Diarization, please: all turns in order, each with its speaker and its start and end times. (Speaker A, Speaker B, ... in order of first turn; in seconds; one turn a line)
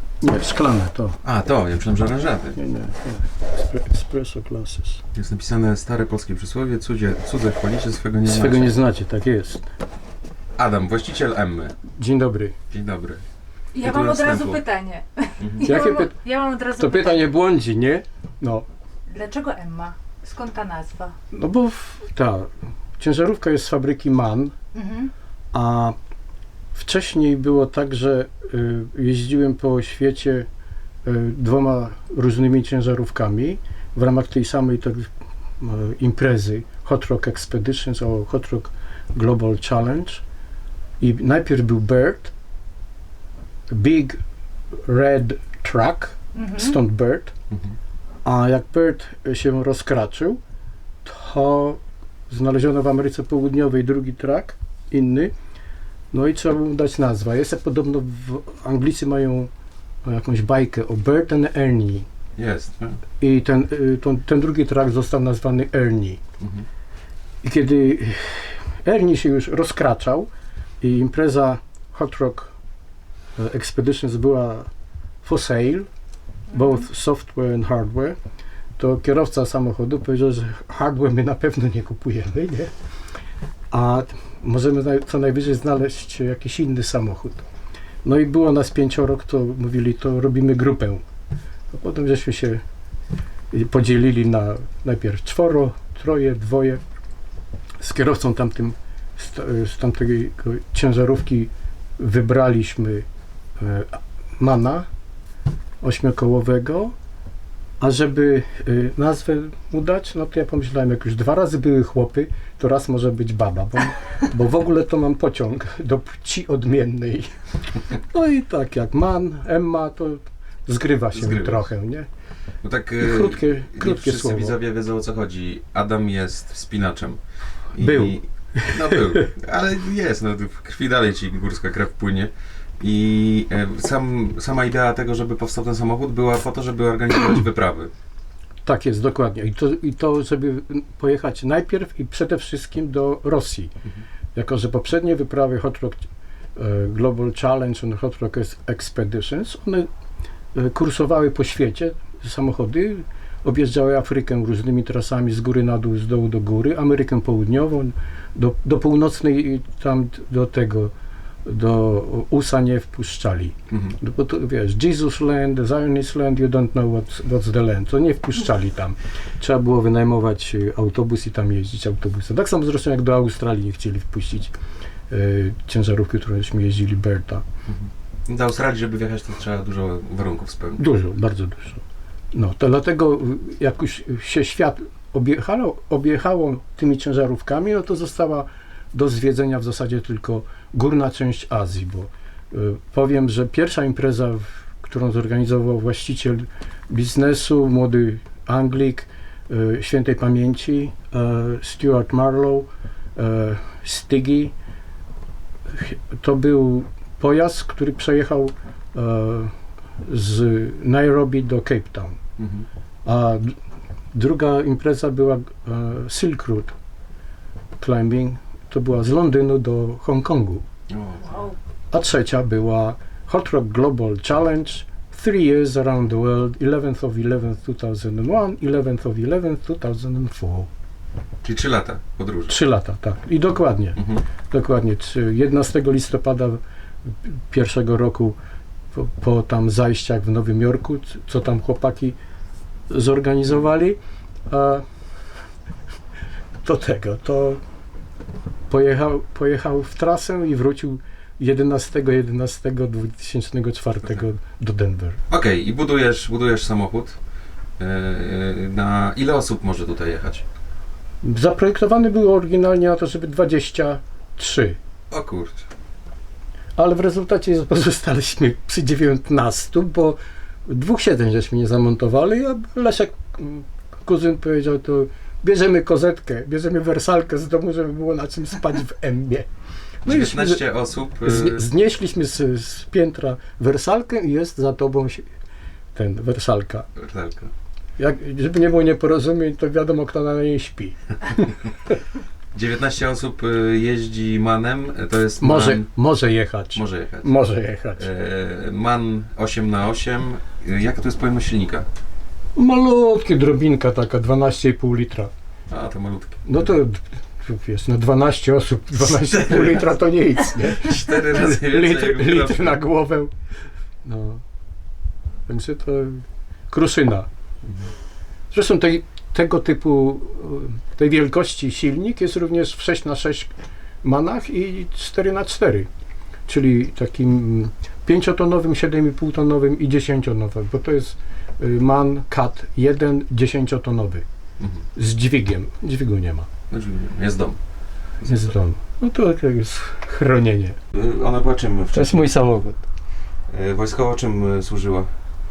Speaker A: 0.2-1.2
Speaker B: 1.2-2.6
Speaker A: 2.5-5.0
Speaker B: 5.1-8.8
Speaker A: 8.2-9.7
Speaker B: 10.6-11.8
Speaker A: 11.9-12.6
Speaker B: 12.7-13.2
Speaker C: 13.7-17.2
Speaker B: 13.8-14.6
Speaker B: 15.4-15.7
Speaker A: 15.6-16.2
Speaker A: 16.8-18.7
Speaker C: 19.1-21.1
Speaker A: 21.3-24.5
Speaker C: 24.7-25.1
Speaker A: 25.5-25.9
Speaker A: 26.7-30.5
Speaker A: 31.0-35.1
Speaker A: 35.6-40.2
Speaker A: 41.0-42.3
Speaker A: 43.7-44.2
Speaker A: 44.9-47.3
Speaker C: 46.3-46.8
Speaker A: 48.2-50.4
Speaker A: 51.0-51.8
Speaker A: 52.3-55.3
Speaker A: 56.1-59.5
Speaker A: 60.0-62.1
Speaker B: 62.4-63.0
Speaker A: 63.2-66.2
Speaker A: 67.4-70.3
Speaker A: 70.8-72.5
Speaker A: 73.4-74.7
Speaker A: 75.2-75.9
Speaker A: 76.5-78.2
Speaker A: 78.8-82.7
Speaker A: 83.7-87.5
Speaker A: 88.0-91.0
Speaker A: 91.7-92.6
Speaker A: 93.5-96.8
Speaker A: 97.8-103.0
Speaker A: 103.6-104.9
Speaker A: 105.8-106.9
Speaker A: 107.8-117.3
Speaker A: 117.9-122.1
Speaker B: 121.1-121.7
Speaker B: 122.6-127.2
Speaker A: 123.0-124.6
Speaker B: 127.7-137.9
Speaker A: 127.8-129.2
Speaker A: 138.6-143.7
Speaker A: 144.3-149.9
Speaker A: 150.5-160.9
Speaker A: 161.4-174.6
Speaker B: 163.7-164.0
Speaker A: 175.1-177.4
Speaker B: 177.7-180.8
Speaker A: 180.8-181.8
Speaker A: 182.3-204.5
Speaker A: 205.7-209.5
Speaker A: 210.0-212.2
Speaker B: 212.4-212.7
Speaker A: 213.1-213.6
Speaker A: 214.1-216.7
Speaker A: 217.8-220.6
Speaker B: 220.9-221.3
Speaker C: 221.3-221.5
Speaker A: 221.9-230.7
Speaker B: 231.4-232.6
Speaker A: 232.5-234.0
Speaker B: 234.0-234.2
Speaker A: 234.5-238.4
Speaker A: 238.9-242.2
Speaker A: 242.9-244.8
Speaker A: 246.6-247.6
Speaker A: 248.7-255.2
Speaker B: 255.3-257.2
Speaker B: 257.8-260.4
Speaker A: 261.2-264.8
Speaker B: 265.1-265.6
Speaker A: 266.8-279.5
Speaker A: 280.0-280.6
Speaker B: 280.0-281.6
Speaker A: 281.2-285.3
Speaker A: 285.9-286.9
Speaker B: 286.9-287.5
Speaker A: 288.0-291.4
Speaker B: 292.5-295.9
Speaker A: 295.4-298.1
Speaker B: 296.7-297.4
Speaker B: 298.0-301.9
Speaker A: 302.6-305.3
Speaker B: 305.7-306.7
Speaker A: 306.4-313.3
Speaker B: 309.1-309.9
Speaker B: 310.5-312.8
Speaker A: 314.0-314.4
Speaker A: 315.5-317.3
Speaker A: 318.5-323.5
Speaker A: 324.0-325.9
Speaker A: 326.5-334.2
Speaker A: 334.9-336.5
Speaker B: 336.7-337.6
Speaker A: 338.2-340.8
Speaker B: 340.9-342.2
Speaker A: 341.9-342.8
Speaker B: 343.5-345.1